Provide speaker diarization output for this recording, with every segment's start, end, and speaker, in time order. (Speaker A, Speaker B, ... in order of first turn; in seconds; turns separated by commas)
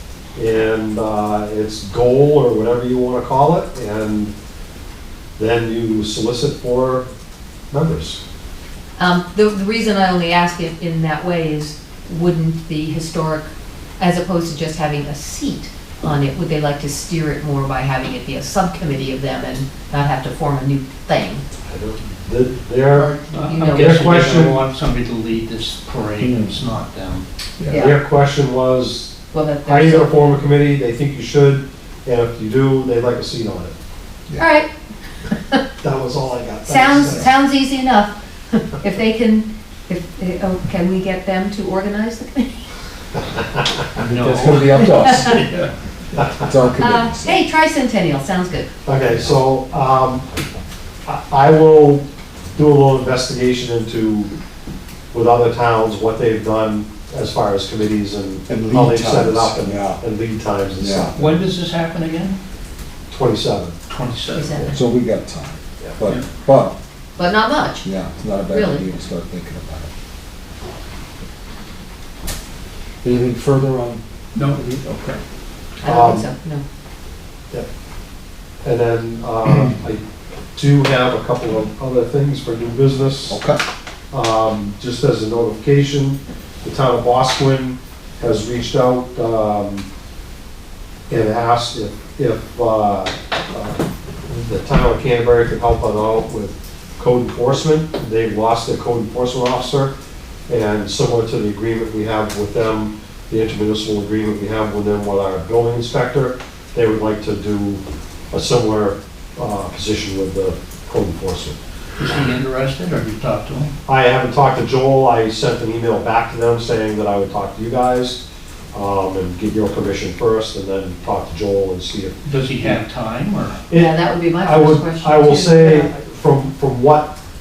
Speaker A: 0.3-4.3, Speaker A: 5.4-7.1, Speaker A: 7.7-8.2, Speaker B: 9.0-21.4, Speaker A: 21.7-24.6, Speaker C: 23.1-27.2, Speaker B: 23.5-24.1, Speaker D: 27.6-27.9, Speaker B: 27.7-28.0, Speaker A: 27.7-33.7, Speaker B: 29.3-30.1, Speaker B: 34.4-34.7, Speaker A: 35.8-37.3, Speaker B: 36.7-42.6, Speaker A: 43.4-43.7, Speaker D: 44.0-45.4, Speaker C: 44.0-45.7, Speaker B: 45.0-45.4, Speaker A: 46.2-46.5, Speaker D: 46.3-47.4, Speaker B: 46.8-48.7, Speaker A: 48.9-50.3, Speaker A: 51.1-52.0, Speaker A: 52.6-54.3, Speaker A: 55.1-61.2, Speaker D: 58.5-60.0, Speaker D: 60.8-61.3, Speaker C: 61.2-62.4, Speaker A: 63.1-63.8, Speaker C: 63.9-64.6, Speaker B: 64.3-64.8, Speaker D: 64.7-66.8, Speaker B: 67.2-67.9, Speaker D: 67.8-69.9, Speaker B: 68.5-68.8, Speaker D: 73.0-74.0, Speaker C: 74.3-74.6, Speaker D: 74.5-75.2, Speaker B: 75.8-76.6, Speaker A: 75.8-76.3, Speaker A: 78.6-80.0, Speaker D: 79.5-79.7, Speaker A: 80.5-83.4, Speaker D: 83.3-83.6, Speaker A: 84.1-89.9, Speaker A: 91.1-99.9, Speaker A: 100.5-107.8, Speaker A: 108.3-111.6, Speaker C: 112.0-113.7, Speaker A: 113.9-118.2, Speaker A: 118.7-122.8, Speaker C: 122.2-123.6, Speaker A: 123.7-127.1, Speaker B: 123.7-125.9